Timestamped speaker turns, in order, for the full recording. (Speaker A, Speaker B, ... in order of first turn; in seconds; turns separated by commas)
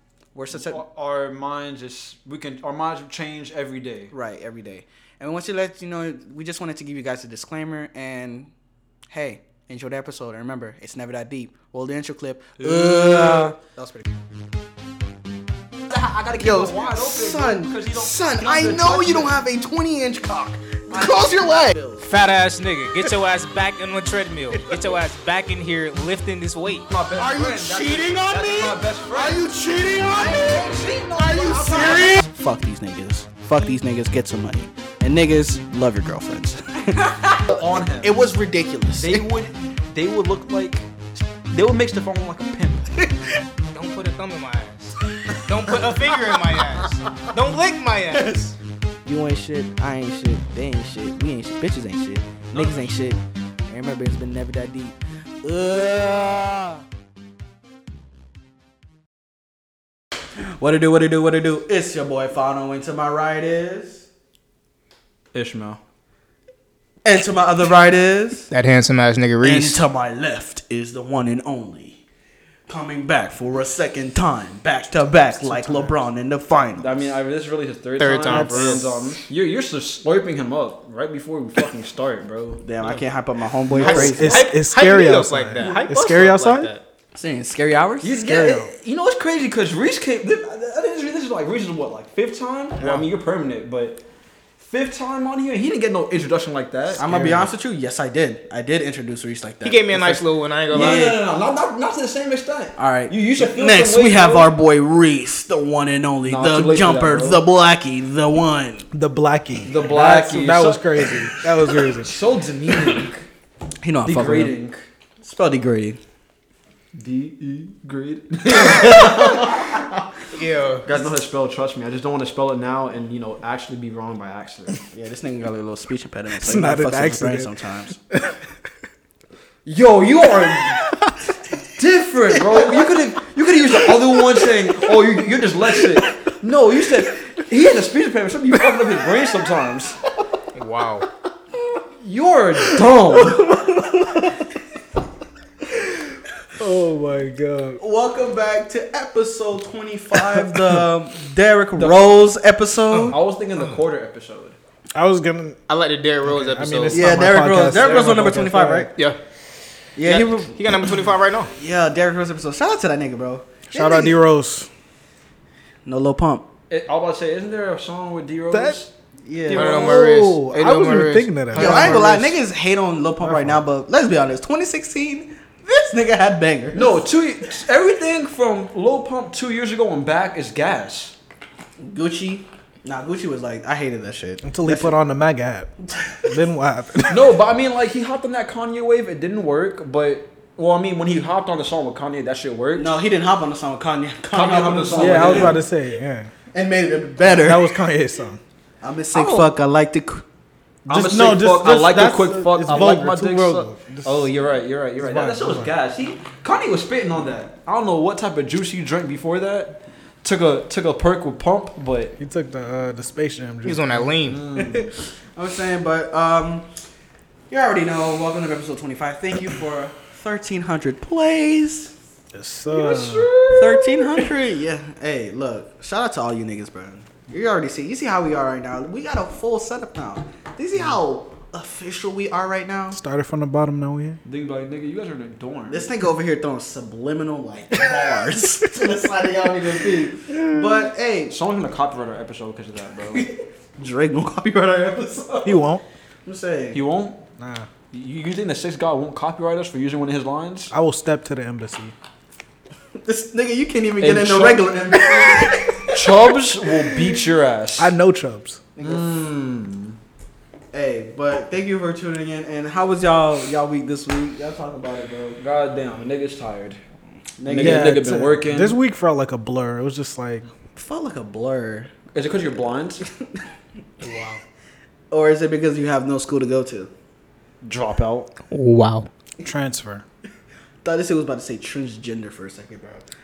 Speaker A: 0.3-0.8, Speaker B: 0.5-4.1, Speaker A: 4.1-8.5, Speaker A: 9.1-14.0, Speaker B: 12.6-13.5, Speaker B: 15.9-19.4, Speaker A: 16.4-22.1, Speaker C: 22.0-26.9, Speaker B: 26.9-29.4, Speaker A: 27.1-39.3, Speaker B: 30.1-32.2, Speaker B: 37.5-38.2, Speaker B: 39.0-40.9, Speaker B: 41.5-43.0, Speaker C: 43.7-48.5, Speaker A: 49.0-56.8, Speaker B: 52.5-52.9, Speaker A: 60.4-64.0, Speaker B: 65.3-65.8, Speaker A: 67.0-68.5, Speaker C: 68.5-69.8, Speaker A: 69.4-72.0, Speaker A: 72.7-77.1, Speaker D: 75.4-75.9, Speaker B: 76.8-83.0, Speaker C: 78.0-78.8, Speaker D: 78.3-79.0, Speaker A: 82.6-84.5, Speaker D: 83.8-86.7, Speaker C: 83.8-86.8, Speaker A: 85.6-85.8, Speaker A: 87.1-88.2, Speaker B: 88.0-94.0, Speaker D: 88.2-88.7, Speaker C: 92.8-93.0, Speaker B: 94.6-97.5, Speaker A: 97.0-101.2, Speaker C: 99.6-101.2, Speaker B: 100.7-104.5, Speaker A: 102.8-108.9, Speaker B: 106.2-107.4, Speaker D: 108.9-112.2, Speaker B: 109.6-113.2, Speaker A: 113.8-114.5, Speaker B: 114.0-114.8, Speaker A: 115.2-116.0, Speaker B: 116.9-120.0, Speaker A: 118.6-119.1, Speaker C: 118.7-119.3, Speaker C: 120.3-120.9, Speaker B: 120.8-124.8, Speaker A: 124.9-128.0, Speaker D: 126.4-127.5, Speaker D: 128.1-128.4, Speaker B: 129.7-130.8, Speaker B: 131.8-140.0, Speaker D: 134.2-134.4, Speaker C: 140.5-141.1, Speaker B: 142.0-143.5, Speaker D: 142.7-144.4, Speaker D: 146.6-147.8, Speaker A: 147.8-153.2, Speaker D: 150.1-150.8, Speaker B: 151.8-152.1, Speaker C: 152.9-153.8, Speaker B: 153.1-154.6, Speaker D: 154.9-155.6, Speaker C: 155.7-157.3, Speaker D: 156.2-158.9, Speaker A: 156.9-158.9, Speaker B: 157.7-158.1, Speaker A: 159.9-160.9, Speaker C: 160.0-161.5, Speaker A: 161.5-164.2, Speaker D: 163.7-164.7, Speaker A: 165.8-166.5, Speaker B: 166.7-168.9, Speaker D: 168.5-168.8, Speaker A: 169.2-170.0, Speaker D: 169.5-172.1, Speaker C: 169.5-172.3, Speaker A: 171.5-177.0, Speaker D: 173.2-173.6, Speaker B: 176.7-181.1, Speaker A: 181.8-184.9, Speaker D: 184.4-185.7, Speaker A: 185.9-186.2, Speaker D: 186.2-187.3, Speaker B: 187.1-192.9, Speaker A: 192.8-195.6, Speaker B: 194.3-195.6, Speaker D: 195.0-196.3, Speaker A: 196.5-197.6, Speaker D: 197.3-198.4, Speaker A: 198.8-200.2, Speaker B: 199.1-199.5, Speaker B: 200.8-212.1, Speaker D: 200.9-204.3, Speaker D: 205.0-205.7, Speaker D: 212.2-214.2, Speaker C: 213.6-214.4, Speaker B: 214.3-214.9, Speaker A: 214.5-216.7, Speaker A: 217.5-221.9, Speaker D: 222.3-223.3, Speaker B: 222.7-224.3, Speaker A: 223.5-233.0, Speaker D: 232.9-234.2, Speaker B: 234.2-235.9, Speaker A: 235.7-241.3, Speaker D: 240.3-240.9, Speaker B: 241.3-243.2, Speaker A: 243.1-245.6, Speaker D: 245.4-245.8, Speaker A: 246.2-246.8, Speaker B: 246.7-247.2, Speaker D: 247.4-247.7, Speaker B: 247.9-250.7, Speaker D: 250.7-251.9, Speaker A: 253.0-256.2, Speaker B: 254.0-254.6, Speaker B: 255.9-257.9, Speaker D: 257.8-258.6, Speaker A: 258.8-259.1, Speaker B: 258.8-260.0, Speaker A: 260.7-265.4, Speaker B: 265.4-266.8, Speaker A: 267.4-267.9, Speaker B: 267.4-268.8, Speaker D: 267.6-270.5, Speaker A: 270.7-271.9, Speaker B: 272.1-273.0, Speaker C: 274.0-274.4, Speaker A: 275.1-276.9, Speaker B: 277.6-278.3, Speaker C: 278.5-279.1, Speaker D: 279.4-280.0, Speaker A: 280.8-283.0